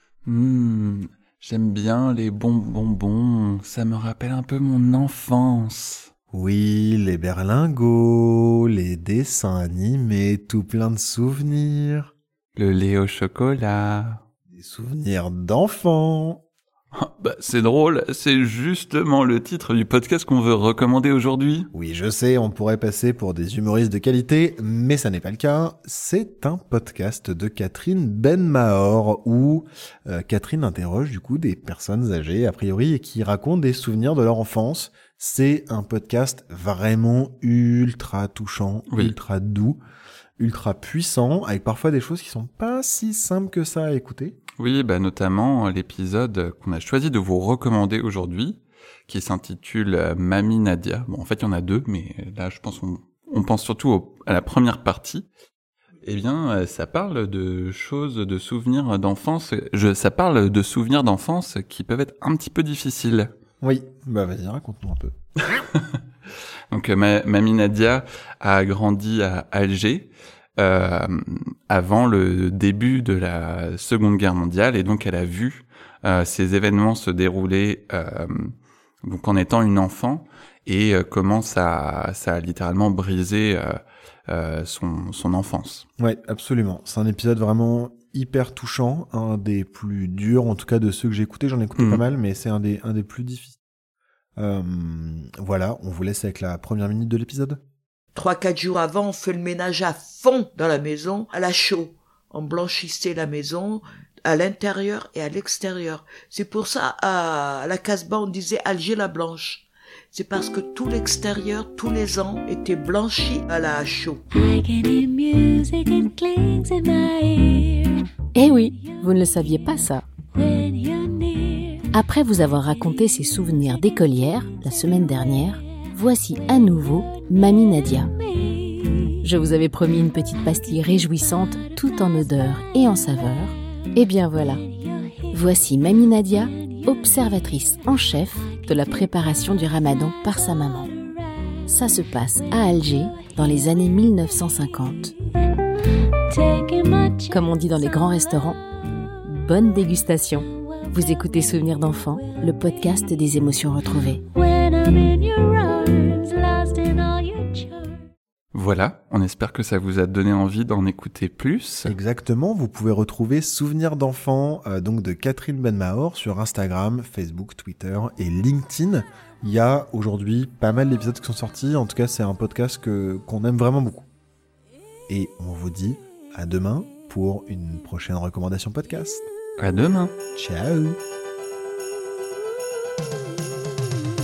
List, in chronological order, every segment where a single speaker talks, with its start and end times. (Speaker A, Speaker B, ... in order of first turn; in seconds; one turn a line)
Speaker A: 0.3-6.1
Speaker B: 6.3-12.1
Speaker A: 12.6-14.2
Speaker B: 14.5-16.4
Speaker A: 16.9-21.7
Speaker B: 21.7-39.8
Speaker A: 38.9-39.2
Speaker B: 40.4-44.4
Speaker A: 44.6-55.3
Speaker A: 56.0-63.3
Speaker B: 63.6-65.1
Speaker A: 65.5-65.8
Speaker A: 66.7-85.9
Speaker B: 86.0-93.5
Speaker A: 91.8-92.0
Speaker B: 94.4-97.6
Speaker C: 98.2-114.2
Speaker D: 114.3-118.0
Speaker E: 118.3-120.1
Speaker D: 120.4-121.8
Speaker E: 121.9-128.1
Speaker D: 128.5-129.1
Speaker E: 129.2-134.6
Speaker E: 135.3-140.9
Speaker E: 141.7-145.1
Speaker D: 146.3-147.3
Speaker E: 147.3-148.6
Speaker E: 149.2-154.2
Speaker D: 154.4-158.0
Speaker A: 158.5-161.9
Speaker B: 161.9-174.1
Speaker B: 175.1-179.3
Speaker A: 179.6-180.1
Speaker B: 180.3-181.0